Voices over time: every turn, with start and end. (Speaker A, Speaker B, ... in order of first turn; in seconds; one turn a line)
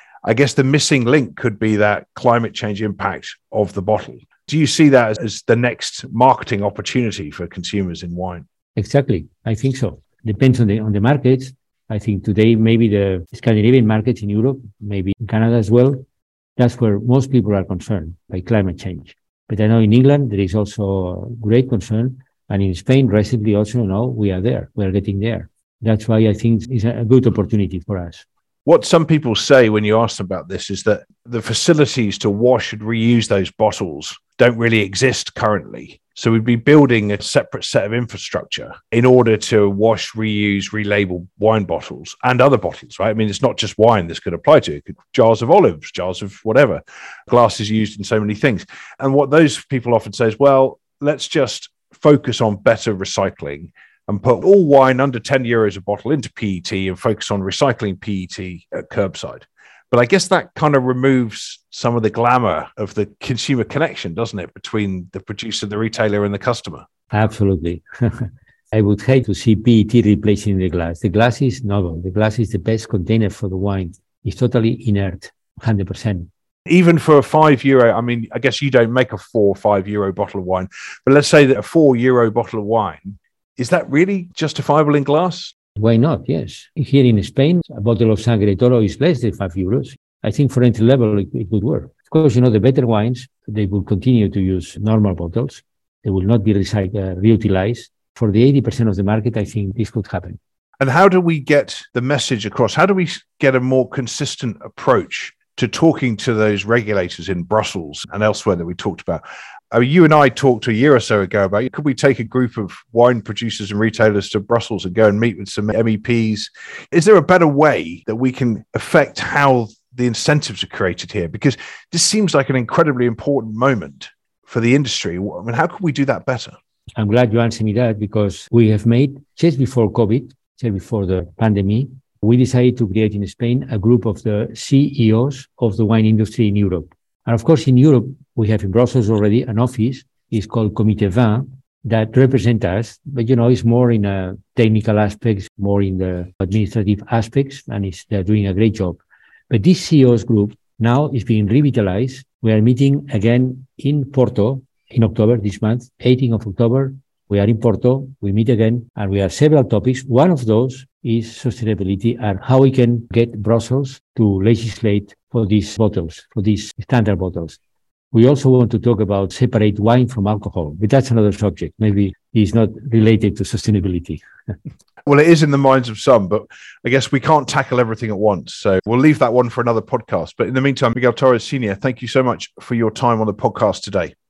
Speaker A: 0.2-8.4
Speaker B: 8.8-16.0
Speaker B: 16.6-28.2
Speaker A: 28.6-66.8
Speaker B: 67.1-76.3
Speaker A: 76.7-85.5
Speaker B: 85.8-100.4
Speaker A: 100.8-126.5
Speaker B: 127.0-167.6
Speaker B: 168.1-174.2
Speaker A: 175.1-184.1